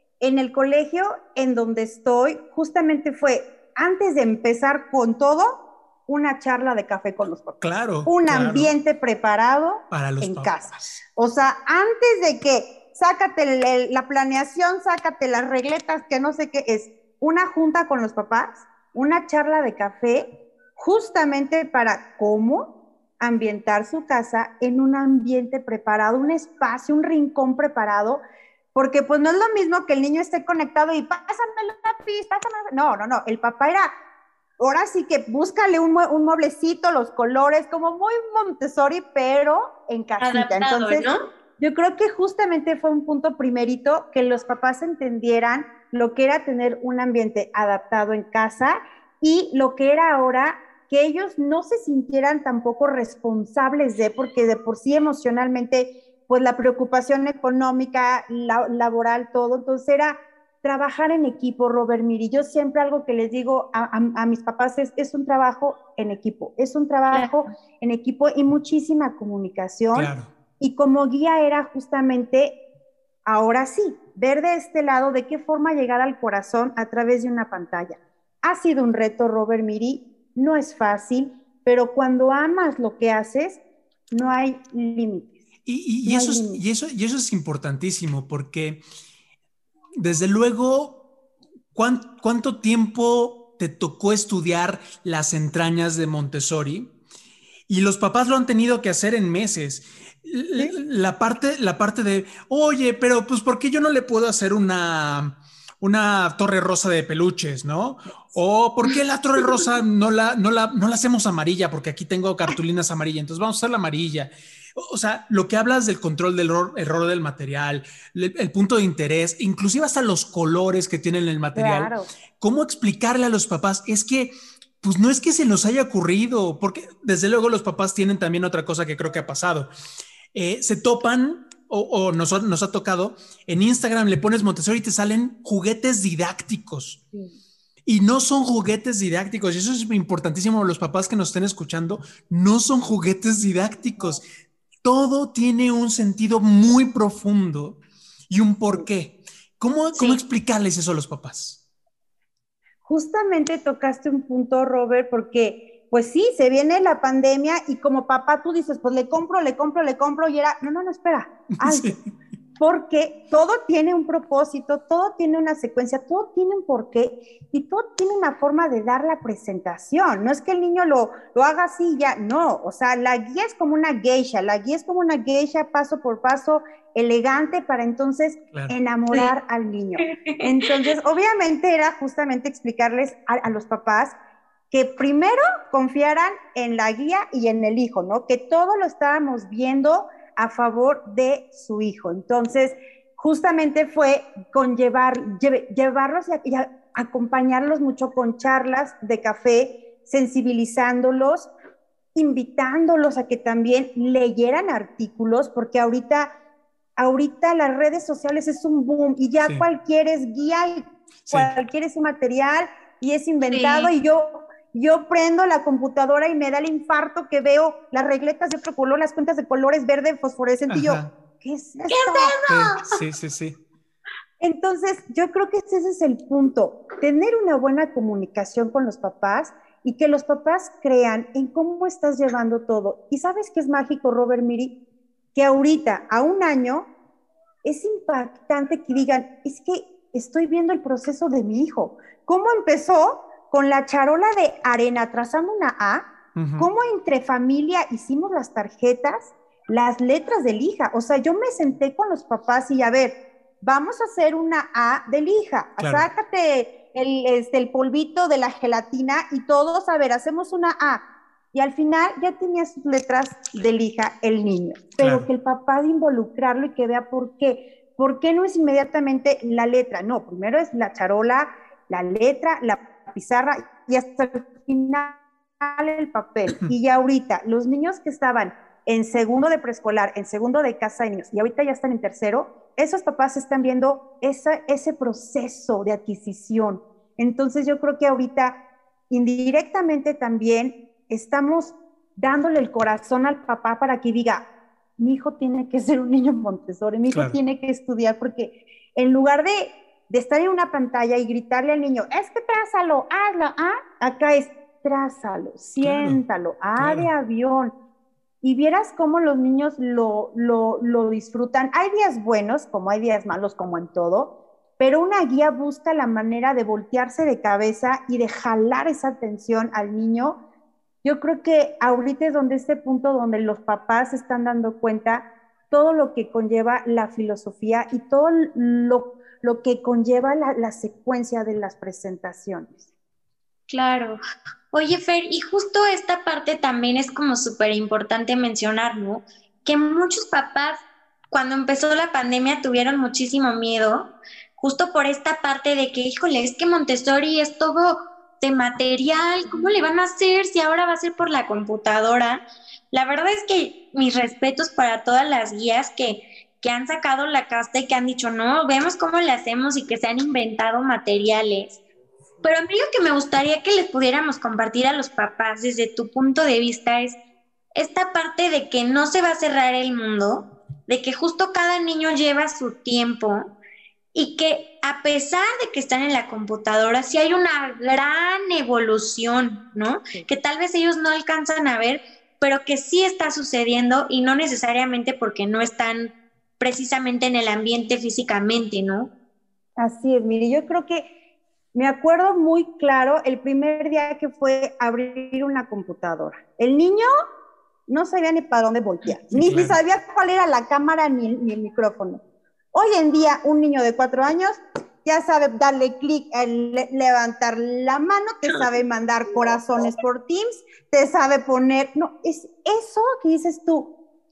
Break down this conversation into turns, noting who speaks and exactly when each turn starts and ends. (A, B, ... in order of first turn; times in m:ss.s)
0:00.2-0:05.6 A
0:06.1-0:22.7 A
0:07.6-0:08.8 B
0:09.9-0:10.8 B
0:23.2-0:28.2 A
0:28.8-0:33.9 A
0:34.6-0:41.0 A
0:40.2-0:41.2 C
0:41.6-1:12.6 A
1:09.9-1:10.3 B
1:13.3-1:25.4 A
1:25.7-1:28.8 B
1:26.0-1:26.6 A
1:30.0-1:31.0 B
1:31.7-1:36.9 B
1:37.7-2:09.7 B
2:01.6-2:02.1 A
2:10.3-2:17.0 B
2:17.9-2:24.2 B
2:24.8-2:31.6 B
2:32.8-2:42.0 A
2:41.6-2:42.0 B
2:42.6-3:04.2 A
3:00.0-3:00.7 C
3:04.7-3:21.5 A
3:22.2-3:26.3 A
3:27.0-3:42.4 A
3:33.5-3:33.9 C
3:40.7-3:41.1 B
3:41.9-3:43.0 C
3:42.5-3:43.6 B
3:44.4-3:54.7 A
3:55.4-3:56.9 A
3:57.6-4:06.1 A
4:06.4-4:06.7 B
4:06.6-4:48.6 A
4:15.8-4:16.1 B
4:25.0-4:25.3 B
4:49.1-4:54.4 A
4:55.0-5:07.7 A
4:57.1-4:57.4 B
5:05.8-5:06.2 B
5:06.8-5:07.1 B
5:08.4-5:20.4 A
5:21.0-5:32.9 A
5:33.7-5:34.2 C
5:34.7-6:01.8 C
6:02.4-6:07.2 C
6:07.8-6:13.5 C
6:14.1-6:29.1 C
6:29.8-6:31.1 A
6:31.7-6:37.1 A
6:37.9-6:42.2 A
6:39.3-6:39.8 B
6:42.7-6:53.9 A